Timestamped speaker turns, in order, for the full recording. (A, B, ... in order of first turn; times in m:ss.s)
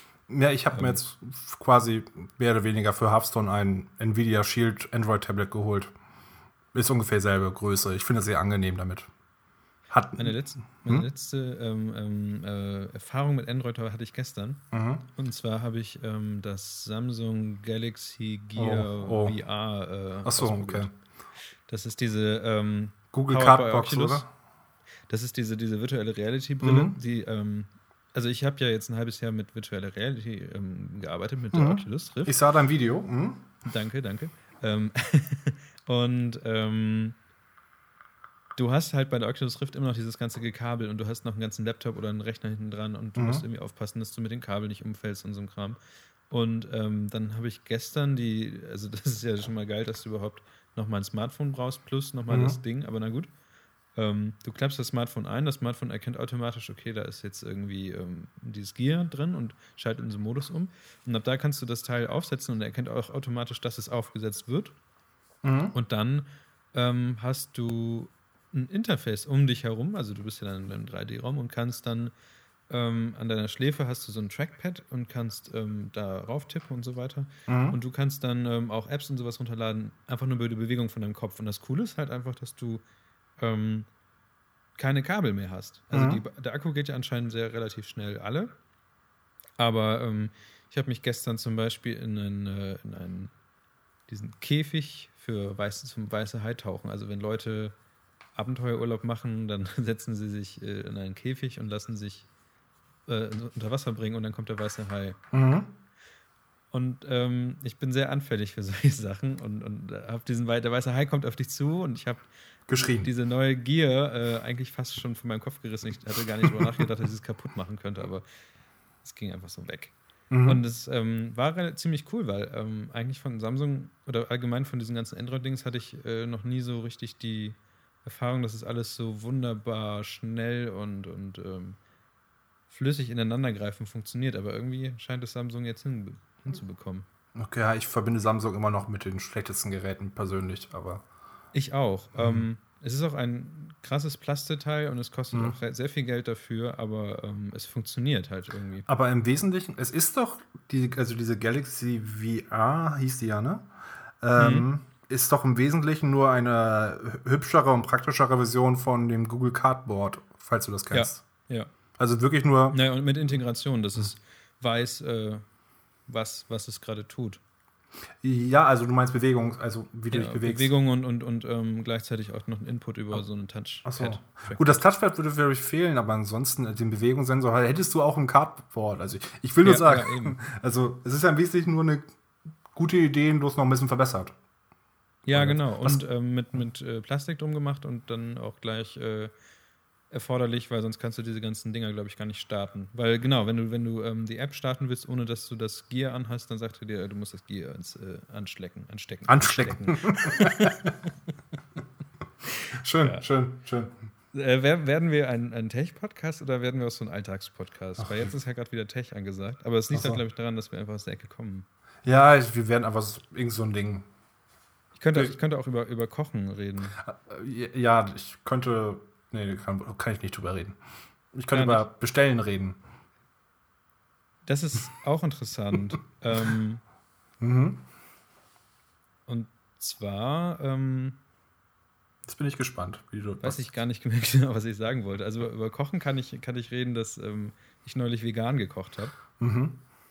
0:00.3-0:05.9 A
0:00.7-0:01.0 B
0:06.7-0:09.1 A
0:09.9-0:10.3 A
0:10.2-0:14.6 B
0:14.7-0:15.0 A
0:15.2-0:20.9 B
0:18.6-0:19.4 A
0:20.2-0:20.9 A
0:21.7-0:24.2 B
0:23.1-0:24.3 A
0:25.1-0:32.4 B
0:26.6-0:27.0 A
0:31.5-0:33.4 A
0:33.6-0:37.2 B
0:38.6-0:45.8 B
0:43.2-0:43.4 A
0:46.3-0:53.3 B
0:52.3-0:52.6 A
0:54.0-1:04.8 B
1:05.4-1:05.8 A
1:05.7-1:12.1 B
1:12.7-1:22.8 B
1:17.5-1:17.8 A
1:23.4-1:23.9 B
1:24.8-1:28.5 B
1:25.9-1:26.2 A
1:29.6-1:33.3 B
1:34.1-1:37.7 B
1:38.4-1:42.3 B
1:43.1-1:45.2 B
1:45.3-1:45.7 A
1:46.7-1:52.3 B
1:52.7-1:53.1 A
1:53.0-1:58.2 B
1:56.4-1:56.8 A
1:59.0-1:59.9 B
2:00.3-2:00.6 A
2:00.5-2:11.8 B
2:12.7-2:17.1 B
2:17.4-2:21.0 A
2:21.5-2:28.9 B
2:22.2-2:22.4 A
2:28.9-2:33.7 A
2:34.2-2:41.2 A
2:34.4-2:34.7 B
2:40.9-2:41.7 B
2:42.0-2:42.8 A
2:42.7-2:45.4 B
2:46.1-2:47.4 B
2:48.2-2:50.7 A
2:50.1-2:54.8 B
2:53.8-3:02.0 A
2:59.6-3:00.4 B
3:02.7-3:04.3 A
3:05.2-3:09.3 B
3:05.3-3:06.0 A
3:10.1-3:20.9 B
3:19.3-3:20.9 A
3:22.7-3:23.9 A
3:24.3-3:31.7 B
3:28.0-3:28.3 A
3:29.9-3:30.2 A
3:32.0-3:34.1 A
3:35.0-3:37.0 B
3:37.0-3:40.8 A
3:41.3-3:42.8 A
3:41.5-3:41.8 B
3:44.5-3:46.8 B
3:47.4-3:47.8 A
3:49.3-3:51.2 B
3:52.3-3:53.7 A
3:53.4-3:59.2 B
3:59.4-3:59.8 A